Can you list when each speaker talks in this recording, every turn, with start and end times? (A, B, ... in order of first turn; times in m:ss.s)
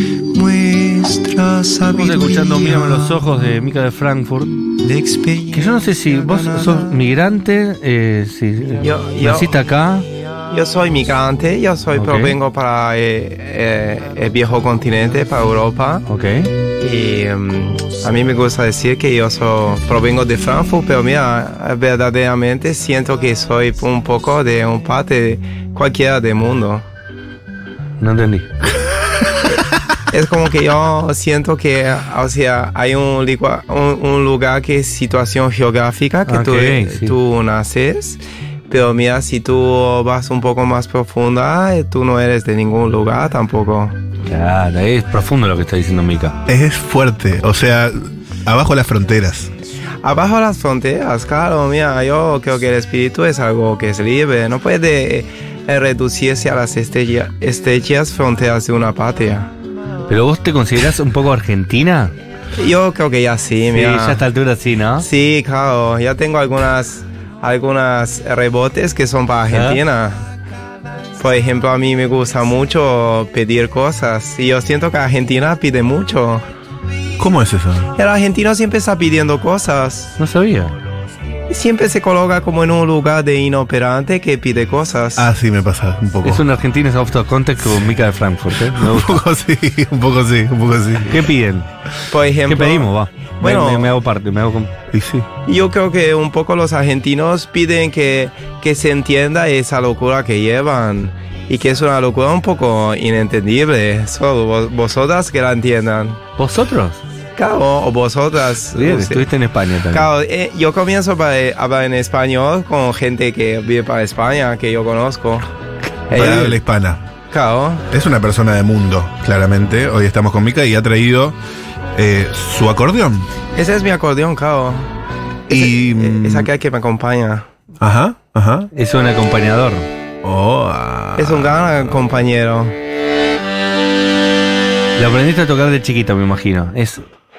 0:00.2-0:03.2 A
0:01.9-0:04.7 B
0:04.8-0:07.0 A
0:05.5-0:10.0 B
0:08.8-0:09.6 A
0:10.5-0:16.0 A
0:11.9-0:12.4 B
0:16.1-0:16.5 B
0:16.8-0:26.8 A
0:28.0-0:28.5 B
0:30.1-0:44.0 A
0:36.3-0:37.1 B
0:44.2-0:46.4 B
0:46.5-0:49.5 C
0:50.0-0:59.5 A
1:00.1-1:02.1 B
1:02.6-1:04.2 A
1:03.7-1:05.0 B
1:05.0-1:10.2 A
1:09.5-1:09.8 B
1:11.2-1:16.4 A
1:17.2-1:17.9 C
1:18.0-1:20.2 A
1:20.2-1:20.7 B
1:21.5-1:25.3 A
1:25.2-1:26.4 C
1:26.2-1:29.2 B
1:28.6-1:31.3 C
1:31.1-1:31.6 B
1:32.1-1:34.0 A
1:32.5-1:34.7 B
1:34.9-1:35.3 C
1:35.4-1:46.2 A
1:46.4-1:47.0 B
1:47.4-1:49.3 A
1:48.7-1:50.1 B
1:49.9-1:55.5 A
1:56.1-1:56.6 A
1:56.1-1:57.1 C
1:57.3-1:57.9 A
1:57.9-2:01.4 C
2:01.9-2:03.3 C
2:03.6-2:04.9 A
2:05.5-2:06.5 C
2:05.5-2:07.4 A
2:07.8-2:08.7 C
2:08.7-2:09.9 B
2:10.2-2:11.9 C
2:11.2-2:12.7 A
2:15.0-2:17.0 B